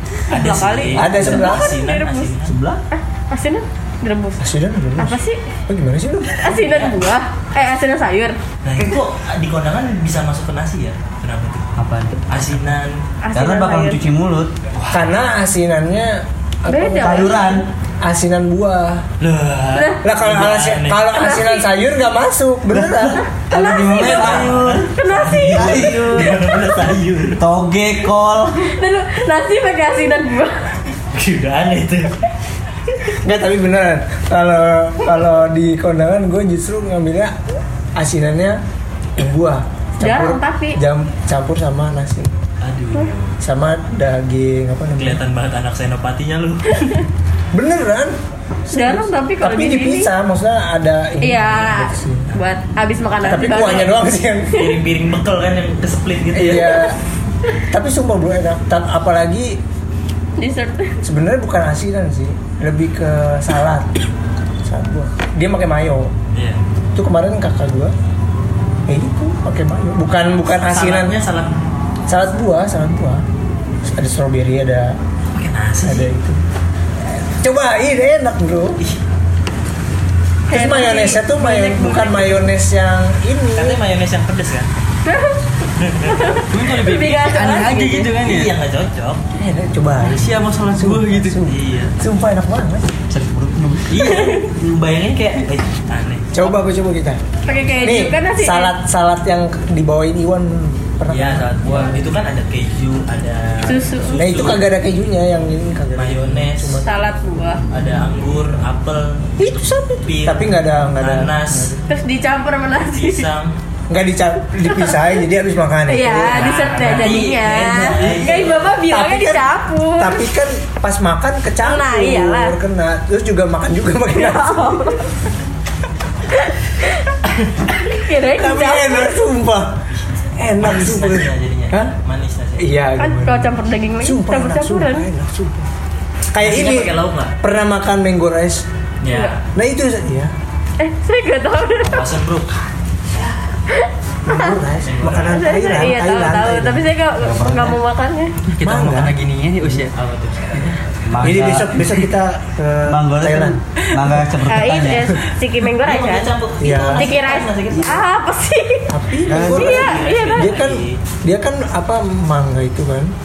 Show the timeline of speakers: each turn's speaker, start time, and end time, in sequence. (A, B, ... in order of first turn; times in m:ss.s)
0:00.3-0:02.3 A
0:00.3-0:02.6 B
0:00.9-0:01.7 C
0:02.9-0:04.4 A
0:04.4-0:06.5 C
0:05.0-0:05.4 A
0:06.4-0:08.4 A
0:06.6-0:06.9 B
0:08.6-0:11.6 B
0:11.8-0:12.2 D
0:12.3-0:13.0 B
0:13.2-0:14.0 A
0:13.3-0:14.5 D
0:14.8-0:15.1 B
0:14.9-0:17.4 C
0:16.7-0:17.6 A
0:17.0-0:17.6 D
0:18.0-0:19.0 C
0:19.2-0:21.0 B
0:19.7-0:20.0 A
0:20.0-0:23.2 C
0:21.1-0:21.7 A
0:23.5-0:24.9 D
0:23.5-0:26.2 A
0:23.9-0:27.4 B
0:25.5-0:26.6 D
0:27.4-0:28.6 D
0:28.6-0:30.7 A
0:31.1-0:32.2 B
0:33.1-0:37.3 C
0:38.0-0:38.6 C
0:39.2-0:42.3 C
0:40.0-0:40.8 A
0:42.6-0:43.4 B
0:43.4-0:45.2 C
0:45.0-0:46.9 B
0:47.5-0:48.1 C
0:48.6-0:52.3 C
0:48.7-0:50.1 A
0:51.2-0:54.1 A
0:53.2-0:54.6 C
0:54.5-0:56.9 B
0:56.3-0:57.0 C
0:57.7-0:59.6 C
1:00.4-1:01.0 A
1:01.0-1:03.9 C
1:04.6-1:06.1 C
1:06.3-1:06.6 B
1:07.0-1:07.9 C
1:08.9-1:11.1 C
1:10.6-1:11.5 B
1:12.1-1:13.2 C
1:13.8-1:15.0 C
1:15.3-1:16.1 B
1:15.8-1:16.4 C
1:17.2-1:18.8 C
1:20.5-1:22.4 A
1:20.5-1:23.8 C
1:23.5-1:24.7 B
1:25.0-1:28.1 A
1:25.8-1:26.3 B
1:26.5-1:28.5 E
1:28.2-1:29.2 B
1:29.4-1:32.9 C
1:30.0-1:31.4 E
1:31.4-1:31.9 B
1:33.1-1:33.9 D
1:33.9-1:36.3 B
1:34.0-1:34.4 A
1:36.3-1:37.2 C
1:37.4-1:38.7 A
1:37.5-1:37.9 B
1:37.8-1:42.0 C
1:41.1-1:44.7 B
1:43.6-1:44.3 A
1:44.2-1:46.9 C
1:45.9-1:46.8 B
1:46.8-1:47.6 A
1:47.7-1:51.8 B
1:49.4-1:51.8 C
1:51.9-1:53.3 A
1:52.8-1:53.5 B
1:53.9-1:57.3 C
1:54.7-1:54.9 A
1:55.9-2:00.2 A
1:56.3-1:58.7 B
1:58.0-2:05.0 C
2:01.6-2:02.6 A
2:04.1-2:05.1 A
2:06.3-2:07.2 A
2:07.7-2:09.1 A
2:08.3-2:09.8 C
2:09.9-2:12.7 B
2:10.4-2:12.0 C
2:12.6-2:15.7 C
2:13.0-2:15.1 A
2:16.3-2:18.6 C
2:16.4-2:17.3 B
2:19.0-2:19.4 B
2:19.1-2:19.4 A
2:19.5-2:20.3 C
2:20.8-2:22.0 A
2:21.8-2:23.4 B
2:23.7-2:24.5 A
2:24.2-2:26.9 C
2:24.8-2:25.6 B
2:25.3-2:28.4 A
2:27.2-2:27.8 D
2:28.5-2:29.9 E
2:28.6-2:29.2 C
2:29.7-2:30.8 B
2:31.1-2:31.8 D
2:31.2-2:33.6 C
2:32.9-2:35.1 D
2:34.4-2:36.3 A
2:35.8-2:38.0 B
2:36.6-2:37.1 C
2:36.9-2:40.5 A
2:38.9-2:43.1 C
2:39.3-2:39.8 D
2:39.4-2:41.0 B